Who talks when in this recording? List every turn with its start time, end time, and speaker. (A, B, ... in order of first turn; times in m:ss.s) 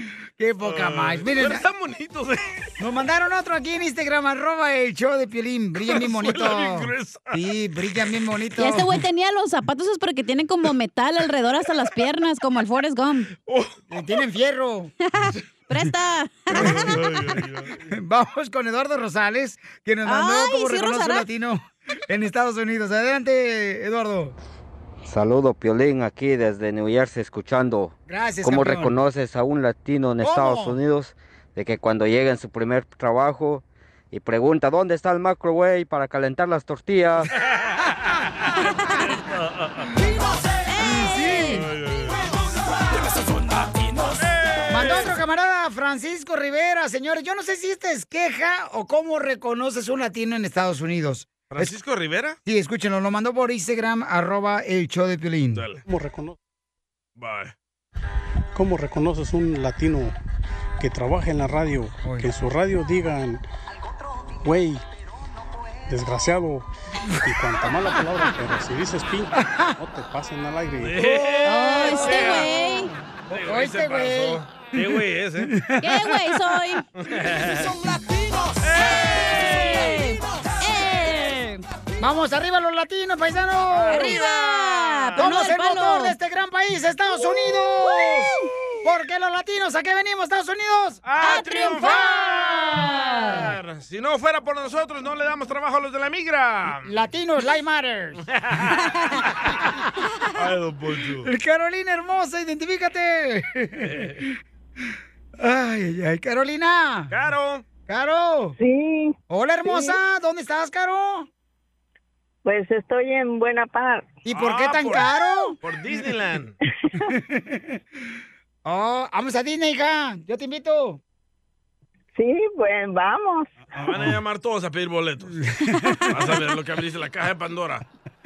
0:00.4-0:01.6 A
0:00.6-0:02.6 B
0:02.8-0:09.0 A
0:05.8-0:07.4 B
0:08.6-0:13.3 C
0:13.5-0:13.7 B
0:13.9-0:14.9 A
0:15.2-0:17.0 C
0:16.5-0:17.1 A
0:16.5-0:17.8 B
0:17.9-0:24.4 A
0:20.0-0:21.3 C
0:25.0-0:37.3 D
0:28.1-0:29.0 A
0:30.2-0:30.8 A
0:40.7-0:41.7 C
0:40.8-0:41.7 A
0:41.5-0:42.3 B
0:44.1-0:45.2 B
0:44.7-0:51.7 A
0:51.5-0:52.4 B
0:52.4-0:55.6 A
0:55.6-0:55.8 B
0:55.9-0:56.4 E
0:57.2-0:57.5 B
0:58.6-1:00.2 E
1:00.8-1:03.4 E
1:02.0-1:02.3 A
1:04.4-1:04.8 E
1:05.9-1:06.7 E
1:07.2-1:11.0 E
1:09.4-1:09.7 A
1:10.8-1:12.6 B
1:11.0-1:16.3 A
1:11.5-1:12.9 C
1:13.3-1:15.6 B
1:15.8-1:16.8 C
1:17.0-1:17.9 B
1:18.6-1:19.9 B
1:18.7-1:21.6 C
1:22.0-1:31.0 A
1:23.7-1:24.2 B
1:23.9-1:26.2 C
1:27.9-1:28.5 C
1:31.0-1:36.9 B
1:31.2-1:33.4 C
1:36.8-1:38.2 A
1:38.3-1:38.8 B
1:40.4-1:41.3 B
1:41.2-1:44.1 A
1:43.8-1:44.2 B
1:45.4-1:47.1 A
1:47.1-1:47.6 B
1:47.9-1:48.6 A
1:48.6-1:50.0 F
1:49.3-1:51.3 A
1:52.4-1:54.2 F
1:54.2-1:55.6 A
1:54.3-1:56.6 B
1:57.1-1:57.6 A
1:58.6-2:01.0 A
2:02.2-2:03.5 F
2:03.8-2:05.4 B
2:05.4-2:06.4 A
2:06.1-2:07.8 B